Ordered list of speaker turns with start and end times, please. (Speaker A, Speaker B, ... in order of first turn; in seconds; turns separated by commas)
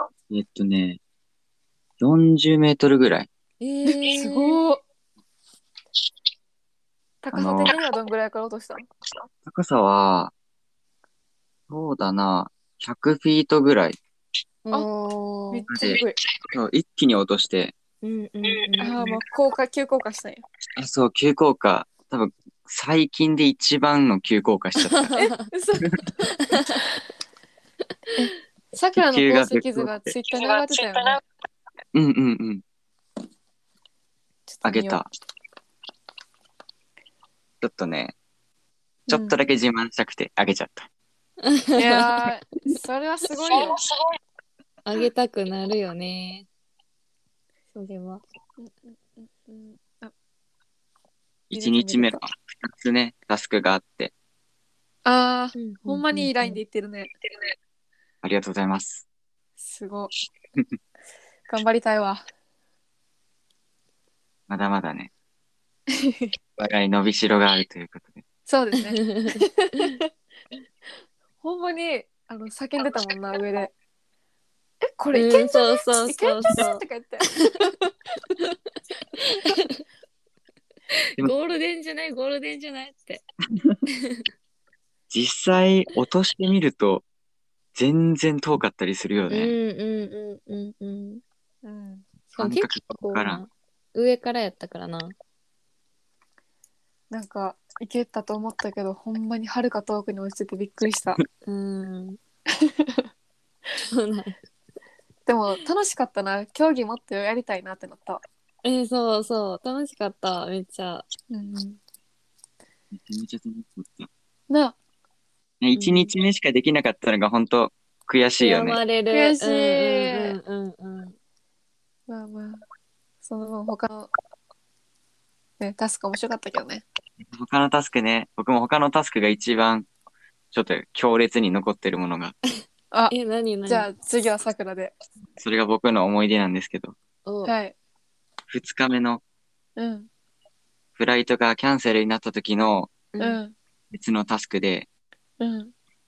Speaker A: 0.3-1.0, Speaker A: 2.0-3.3, Speaker B: 3.6-4.6, Speaker C: 3.8-4.8, Speaker C: 7.2-8.9, Speaker A: 7.3-7.7, Speaker A: 9.4-10.3, Speaker A: 11.7-14.0, Speaker B: 14.6-15.7, Speaker C: 15.5-16.2, Speaker A: 15.7-17.7, Speaker B: 18.0-19.0, Speaker C: 18.8-20.4, Speaker A: 20.8-25.2, Speaker B: 24.9-25.4, Speaker C: 25.2-26.3, Speaker B: 26.5-26.8, Speaker C: 28.1-31.2, Speaker A: 29.0-30.1, Speaker A: 31.9-32.6, Speaker C: 34.5-35.0, Speaker A: 34.6-35.1, Speaker A: 37.6-38.1, Speaker C: 39.1-39.4, Speaker A: 39.1-40.9, Speaker B: 41.4-42.1, Speaker C: 41.7-43.8, Speaker B: 44.9-46.5, Speaker B: 47.7-48.2, Speaker C: 48.6-50.1, Speaker A: 51.5-54.1, Speaker C: 51.5-52.2, Speaker C: 55.0-57.1, Speaker B: 55.5-56.6, Speaker A: 58.2-59.0, Speaker C: 59.6-60.1, Speaker C: 61.5-62.2, Speaker A: 64.5-65.1, Speaker C: 66.0-66.3, Speaker A: 66.6-68.2, Speaker C: 68.5-70.0, Speaker B: 69.0-69.3, Speaker C: 71.4-73.7, Speaker C: 75.0-78.4, Speaker B: 75.1-76.8, Speaker B: 79.3-79.7, Speaker B: 81.2-83.2, Speaker B: 83.9-84.2, Speaker A: 85.1-87.0, Speaker A: 87.7-89.5, Speaker B: 89.3-91.2, Speaker C: 91.6-92.0, Speaker B: 92.3-95.1, Speaker A: 92.4-93.4, Speaker C: 97.1-101.2, Speaker B: 101.5-102.2, Speaker C: 102.7-103.0, Speaker B: 103.9-104.4, Speaker C: 105.2-108.2, Speaker B: 108.6-111.0, Speaker C: 111.3-111.8, Speaker A: 112.9-114.1, Speaker C: 114.5-114.8, Speaker A: 115.6-118.8, Speaker B: 115.8-116.1, Speaker B: 118.4-121.2, Speaker C: 119.1-120.4, Speaker C: 122.1-122.6, Speaker C: 123.2-124.1, Speaker C: 125.6-126.8, Speaker A: 127.3-129.9, Speaker A: 130.5-132.3, Speaker B: 133.1-133.9, Speaker C: 133.7-134.9, Speaker A: 135.4-136.9, Speaker B: 137.2-137.5, Speaker C: 137.4-137.7, Speaker A: 138.5-139.2, Speaker C: 139.8-140.1, Speaker A: 140.9-143.0, Speaker B: 143.1-143.4, Speaker C: 143.2-143.5, Speaker A: 143.9-144.9, Speaker C: 145.4-145.7